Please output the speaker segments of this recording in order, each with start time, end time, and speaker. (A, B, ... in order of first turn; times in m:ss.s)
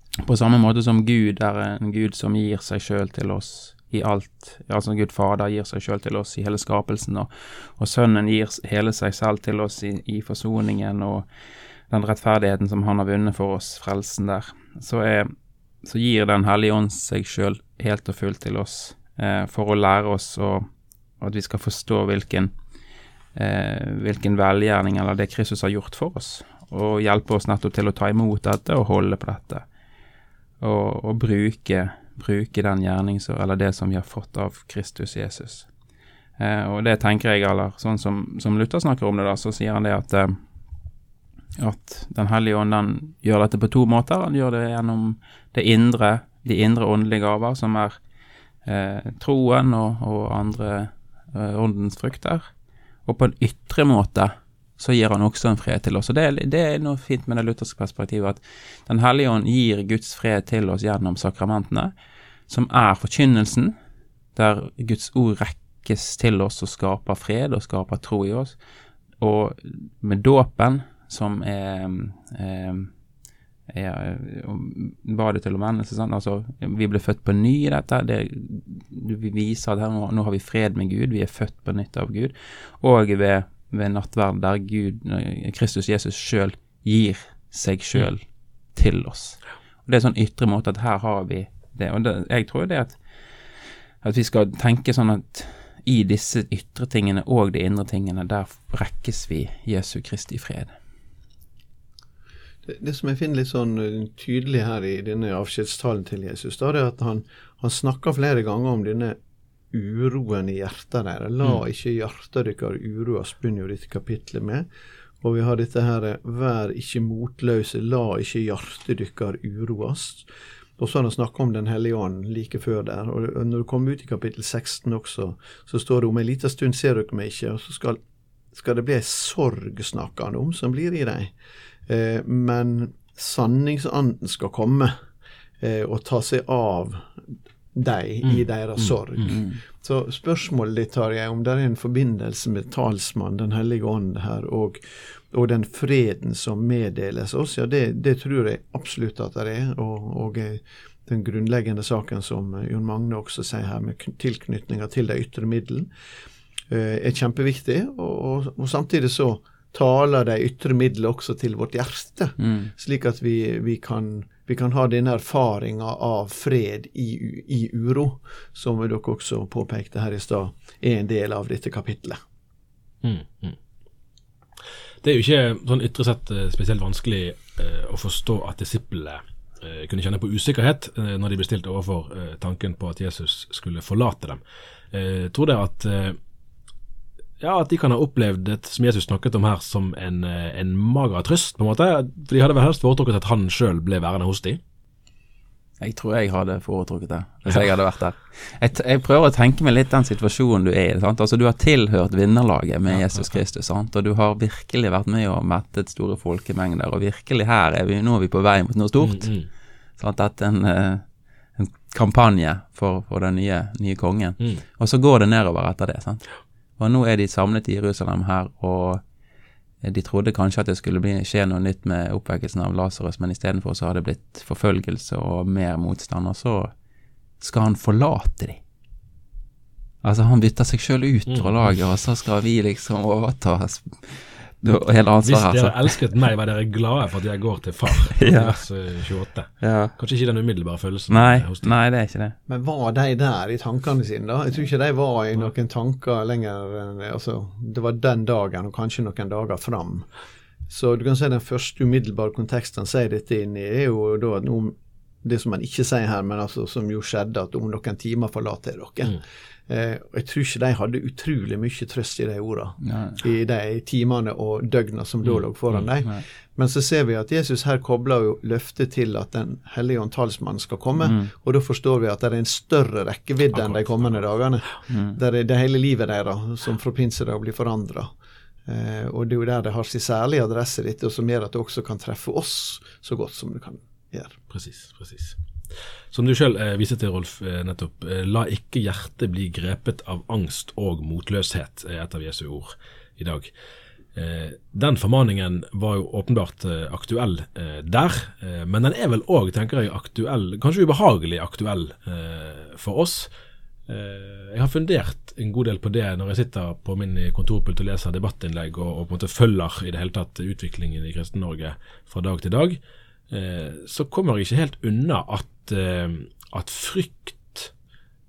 0:00.2-0:11.2 A
0:11.9-0:15.3 A
0:15.8-0:20.7 A
0:21.2-0:22.5 A
0:23.4-0:29.6 A
0:30.6-0:35.7 A
0:36.4-0:40.4 A
0:41.6-0:48.0 A
0:48.6-0:52.5 A
0:53.0-1:01.9 A
1:02.5-1:03.7 A
1:04.3-1:08.6 A
1:09.2-1:12.9 A
1:13.7-1:33.0 A
1:34.0-1:40.7 A
1:42.6-1:49.2 B
1:49.7-1:54.7 B
1:55.2-2:00.3 B
2:00.8-2:08.0 B
2:08.5-2:11.3 B
2:11.9-2:15.0 B
2:15.6-2:35.9 B
2:18.2-2:19.3 C
2:19.2-2:19.6 A
2:36.7-2:52.2 B
2:42.4-2:42.7 A
2:53.0-2:53.6 C
2:55.0-3:04.4 C
3:04.9-3:06.2 C
3:07.4-3:14.6 C
3:15.8-3:29.3 A
3:22.9-3:23.4 C
3:29.0-3:29.5 C
3:30.0-3:31.0 A
3:31.6-3:36.3 A
3:36.8-3:39.0 A
3:39.8-3:46.7 A
3:47.4-3:48.6 A
3:50.0-3:56.0 A
3:51.3-3:51.7 C
3:55.2-4:01.7 C
3:58.1-3:58.6 A
3:59.6-4:00.0 A
4:01.1-4:02.3 A
4:02.5-4:10.1 B
4:10.7-4:38.1 B
4:22.8-4:23.2 A
4:25.2-4:25.9 C
4:31.0-4:31.3 A
4:33.5-4:34.3 C
4:34.9-4:35.2 A
4:38.6-4:44.4 B
4:44.5-4:45.4 C
4:46.1-4:53.5 C
4:54.1-5:03.3 C
5:03.9-5:12.8 C
5:13.3-5:17.7 C